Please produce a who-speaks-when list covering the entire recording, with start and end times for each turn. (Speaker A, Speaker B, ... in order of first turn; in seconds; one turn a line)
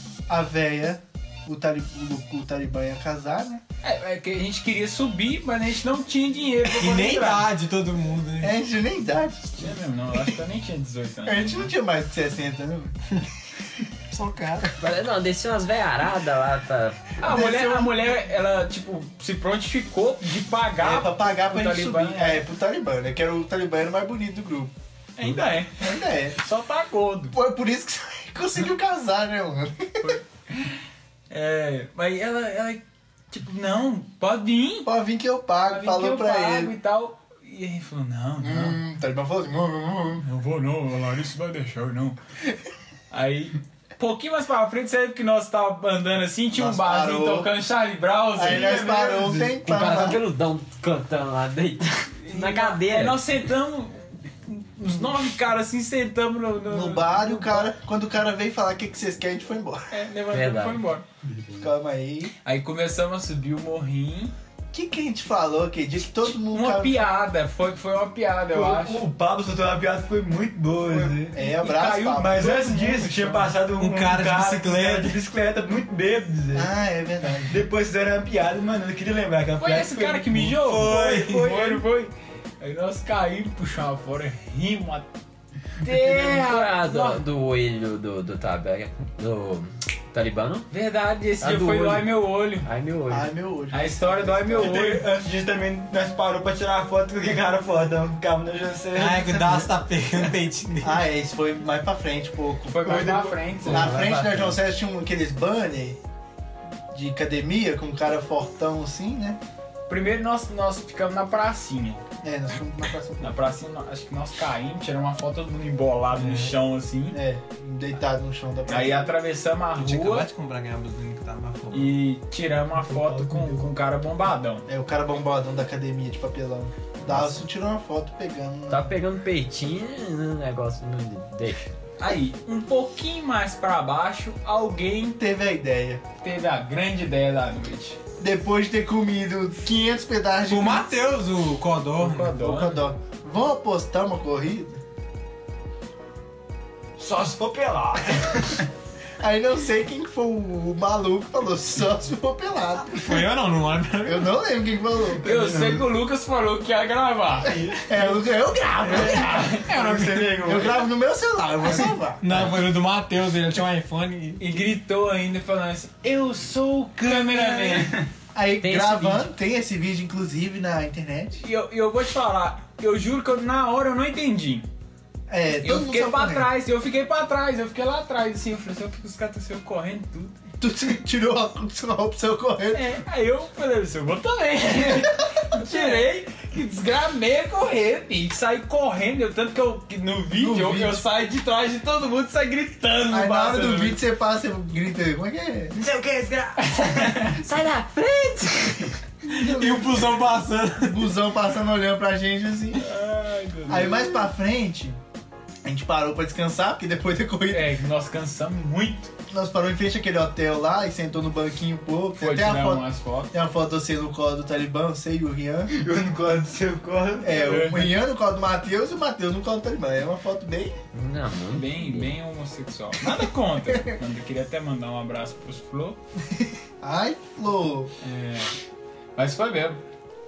Speaker A: 0.3-3.6
Speaker B: 3.8-7.5
Speaker C: 6.7-8.6
Speaker A: 8.4-9.7
Speaker B: 9.6-11.7
Speaker A: 11.2-13.0
Speaker C: 14.1-14.7
Speaker D: 14.8-17.2
Speaker B: 17.2-22.4
Speaker A: 17.2-17.9
Speaker A: 20.8-24.7
Speaker B: 25.2-27.4
Speaker A: 25.8-26.4
Speaker A: 27.3-30.2
Speaker B: 30.0-30.8
Speaker B: 31.3-34.9
Speaker A: 34.9-36.7
Speaker B: 35.6-38.8
Speaker A: 38.4-40.2
Speaker B: 40.2-42.2
Speaker B: 43.1-48.8
Speaker A: 46.5-47.5
Speaker A: 48.4-50.2
Speaker E: 48.4-49.5
Speaker D: 49.6-53.2
Speaker B: 52.2-57.7
Speaker A: 56.7-59.9
Speaker B: 59.9-61.0
Speaker D: 60.3-60.8
Speaker E: 61.3-61.6
Speaker A: 61.6-62.3
Speaker B: 62.4-64.3
Speaker A: 64.7-67.0
Speaker B: 66.1-69.0
Speaker E: 68.5-71.3
Speaker B: 70.9-73.5
Speaker A: 71.3-72.6
Speaker E: 72.1-76.7
Speaker C: 73.8-75.2
Speaker A: 76.5-77.6
Speaker E: 77.5-80.4
Speaker B: 79.6-85.1
Speaker C: 80.3-81.5
Speaker E: 81.5-81.8
Speaker B: 85.8-87.2
Speaker D: 85.9-90.7
Speaker B: 90.7-92.7
Speaker D: 91.4-93.3
Speaker A: 93.1-94.9
Speaker B: 93.7-95.1
Speaker E: 94.5-99.6
Speaker C: 98.9-101.0
Speaker A: 100.8-102.9
Speaker B: 102.7-104.1
Speaker E: 102.8-103.8
Speaker A: 103.6-106.0
Speaker D: 103.7-104.6
Speaker A: 106.9-109.4
Speaker B: 109.9-112.0
Speaker A: 112.2-113.4
Speaker B: 113.2-117.2
Speaker C: 116.1-116.5
Speaker A: 117.1-119.1
Speaker B: 118.7-120.3
Speaker C: 119.8-121.9
Speaker B: 121.7-124.7
Speaker E: 122.9-123.6
Speaker A: 124.7-128.9
Speaker C: 127.1-127.3
Speaker D: 128.7-131.7
Speaker B: 132.0-135.2
Speaker A: 135.2-136.0
Speaker B: 136.2-138.0
Speaker A: 138.2-140.9
Speaker C: 140.4-142.3
Speaker B: 142.0-142.9
Speaker A: 142.4-144.8
Speaker E: 147.0-148.7
Speaker A: 149.2-153.3
Speaker C: 152.9-154.3
Speaker A: 154.0-155.2
Speaker E: 155.1-155.8
Speaker B: 155.2-157.5
Speaker E: 157.4-158.2
Speaker A: 157.8-162.5
Speaker E: 158.8-160.9
Speaker B: 158.9-159.8
Speaker C: 159.8-160.2
Speaker C: 161.6-164.5
Speaker B: 164.4-168.0
Speaker A: 167.1-171.4
Speaker E: 167.7-168.1
Speaker D: 168.6-169.3
Speaker B: 171.4-174.7
Speaker A: 175.3-176.5
Speaker B: 175.6-180.3
Speaker A: 180.6-182.8
Speaker B: 182.7-194.0
Speaker A: 184.8-186.0
Speaker A: 190.3-191.0
Speaker A: 193.1-195.7
Speaker E: 196.0-197.3
Speaker B: 196.6-197.4
Speaker D: 197.4-198.9
Speaker A: 199.3-200.2
Speaker C: 199.3-201.1
Speaker A: 200.8-202.8
Speaker B: 202.8-204.3
Speaker A: 203.7-205.0
Speaker A: 205.6-207.7
Speaker B: 207.5-209.1
Speaker A: 209.3-215.7
Speaker B: 212.2-213.3
Speaker E: 215.7-217.6
Speaker A: 217.2-220.8
Speaker B: 217.4-217.9
Speaker D: 220.9-222.1
Speaker B: 221.5-226.0
Speaker A: 226.4-227.9
Speaker B: 228.0-228.5
Speaker B: 229.2-229.8